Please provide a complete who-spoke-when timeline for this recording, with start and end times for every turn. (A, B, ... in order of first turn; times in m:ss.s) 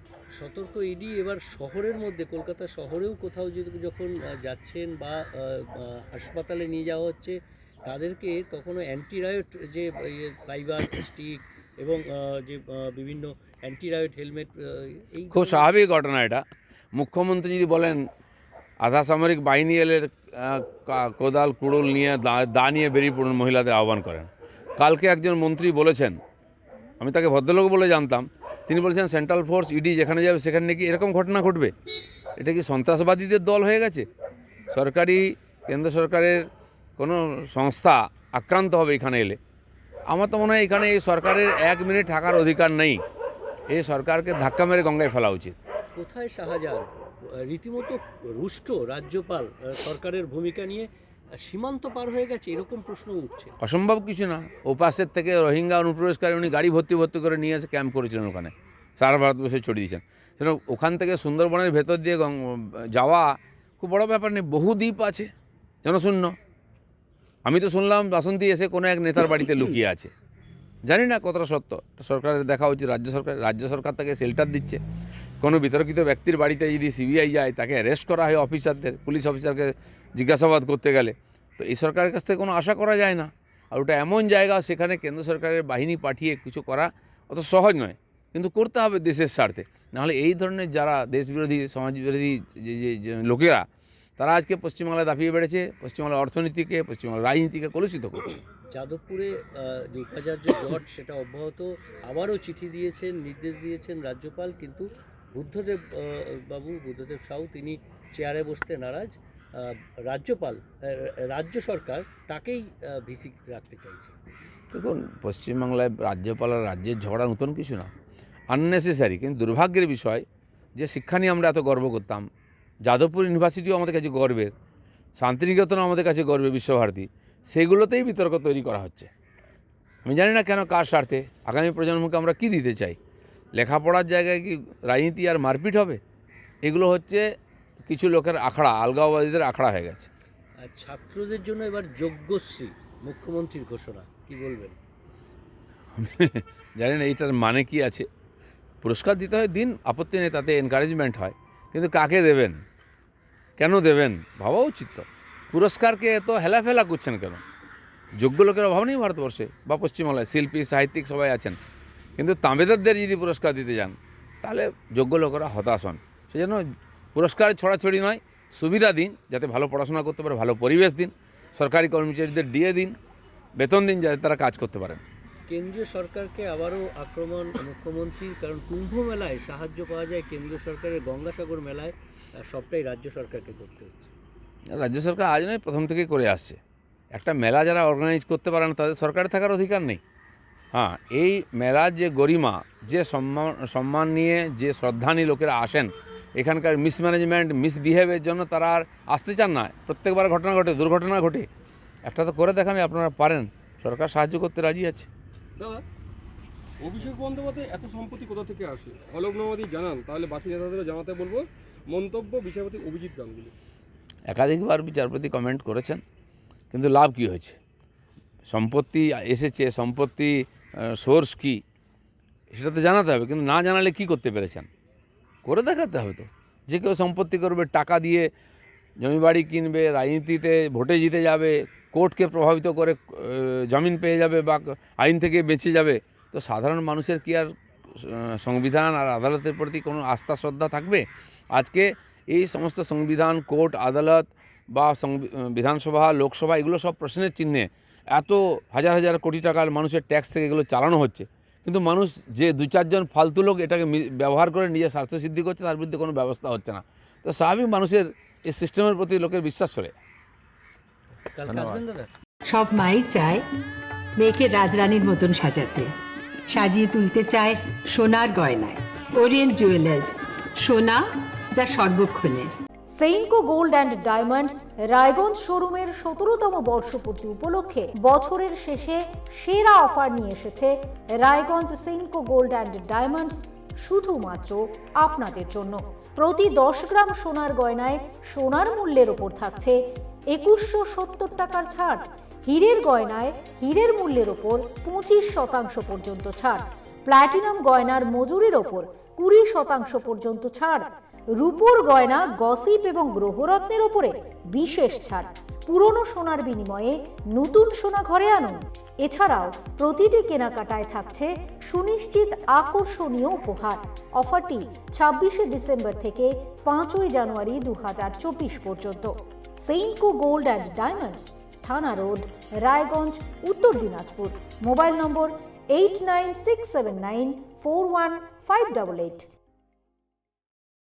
0:00.3-0:15.7 A
0:15.3-0:16.4 B
0:16.9-0:18.1 B
0:18.8-0:26.2 B
0:27.0-0:31.7 B
0:32.4-0:34.1 B
0:34.7-0:36.4 B
0:37.0-0:39.4 B
0:40.1-0:43.0 B
0:43.7-0:45.6 B
0:45.9-0:53.5 A
0:53.6-1:05.3 B
1:05.8-1:06.3 B
1:07.4-1:10.1 B
1:10.9-1:14.8 B
1:15.4-1:33.6 B
1:34.2-1:38.4 B
1:38.7-1:54.2 A
1:54.7-1:57.9 B
1:58.5-2:00.2 B
2:00.8-2:02.3 B
2:02.8-2:04.5 B
2:05.2-2:09.1 B
2:10.0-2:13.0 B
2:13.6-2:16.0 B
2:16.6-2:17.2 B
2:17.8-2:20.1 B
2:20.6-2:24.8 A
2:26.0-2:28.1 B
2:28.8-2:32.6 B
2:33.6-2:37.4 B
2:38.2-2:41.6 B
2:42.2-2:52.9 B
2:53.6-2:55.0 B
2:55.5-3:04.1 A
3:04.7-3:06.6 B
3:07.1-3:10.0 B
3:10.7-3:21.5 B
3:22.0-3:25.1 B
3:25.6-3:25.8 C
3:26.8-3:33.5 C
3:34.3-3:36.0 B
3:36.7-3:37.6 B
3:38.5-3:41.6 B
3:42.5-3:44.7 B
3:45.4-3:48.3 B
3:49.0-4:19.9 B
4:21.3-4:22.1 A
4:21.5-4:21.8 B
4:22.5-4:23.4 D
4:24.2-4:25.9 D
4:26.5-4:32.5 D
4:32.9-5:29.3 E